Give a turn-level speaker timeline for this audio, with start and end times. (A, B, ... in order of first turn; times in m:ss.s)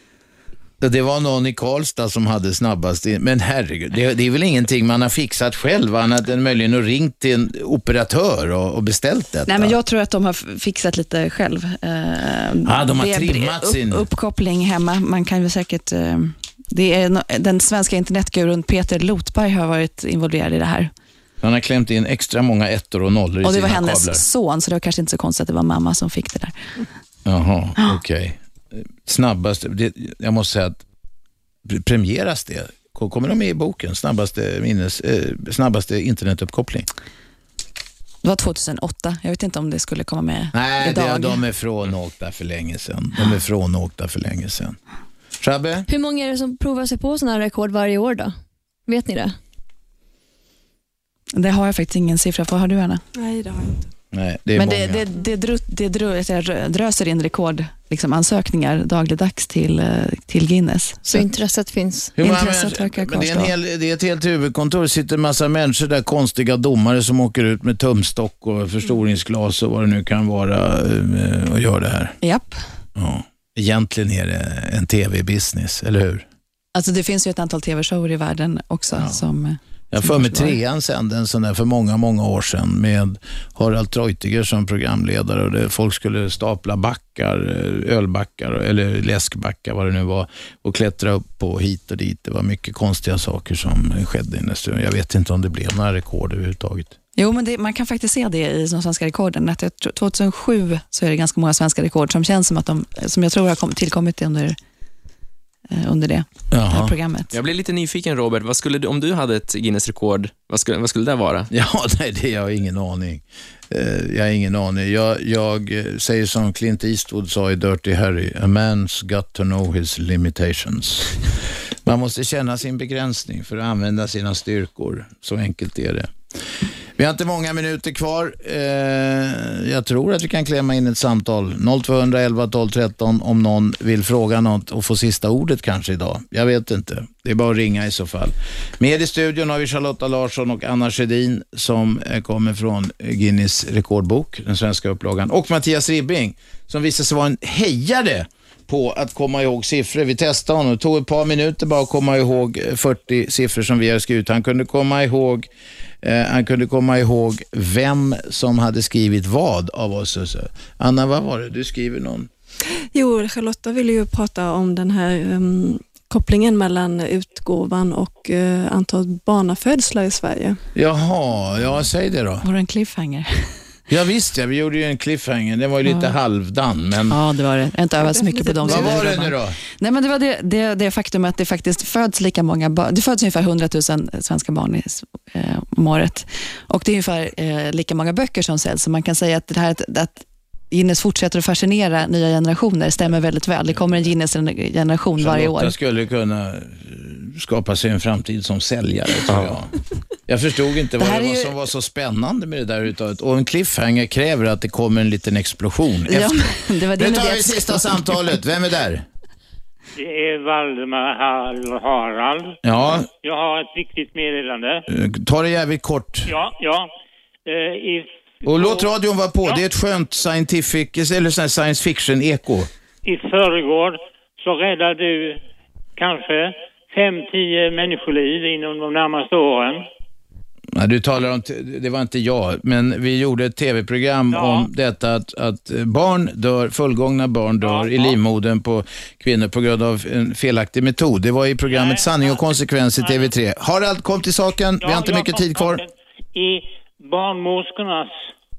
0:00.8-0:09.8 A
0:09.5-0:20.9 B
0:12.6-0:14.0 A
0:21.4-0:24.2 A
0:23.4-0:26.9 B
0:27.2-0:30.8 A
0:31.6-0:36.9 A
0:38.2-0:41.4 B
0:40.5-0:44.8 A
0:45.4-0:45.9 A
0:45.9-0:48.3 C
0:48.9-0:49.4 C
0:51.3-0:53.0 B
0:53.1-0:53.9 D
0:54.1-0:55.0 A
0:54.5-1:01.3 B
1:01.0-1:02.1 C
1:02.2-1:12.2 A
1:02.2-1:03.5 B
1:12.2-1:12.6 B
1:13.0-1:16.2 A
1:16.7-1:20.6 B
1:19.9-1:36.9 A
1:37.2-1:44.6 B
1:45.7-1:47.3 B
1:46.5-1:46.9 A
1:47.3-1:51.5 E
1:51.5-2:01.2 A
2:01.8-2:06.1 A
2:07.0-2:35.5 A
2:36.0-2:42.3 A
2:42.9-2:50.6 D
2:50.7-2:52.5 A
2:52.4-2:53.6 B
2:53.9-2:57.2 A
2:55.8-2:56.2 B
2:57.1-3:15.7 B
2:58.6-2:59.6 A
3:15.2-3:19.7 A
3:20.3-3:26.3 A
3:21.0-3:21.6 B
3:26.0-3:28.2 B
3:27.0-3:29.0 A
3:30.0-3:32.6 F
3:32.6-3:33.1 A
3:33.2-3:34.8 F
3:34.9-3:36.3 A
3:36.3-3:36.9 F
3:37.5-3:38.9 F
3:38.4-3:42.7 A
3:43.0-3:45.4 F
3:46.0-3:49.8 F
3:50.7-4:05.8 A
3:54.3-3:54.7 F
3:57.6-3:58.2 F
4:01.7-4:03.3 F
4:04.8-4:08.3 F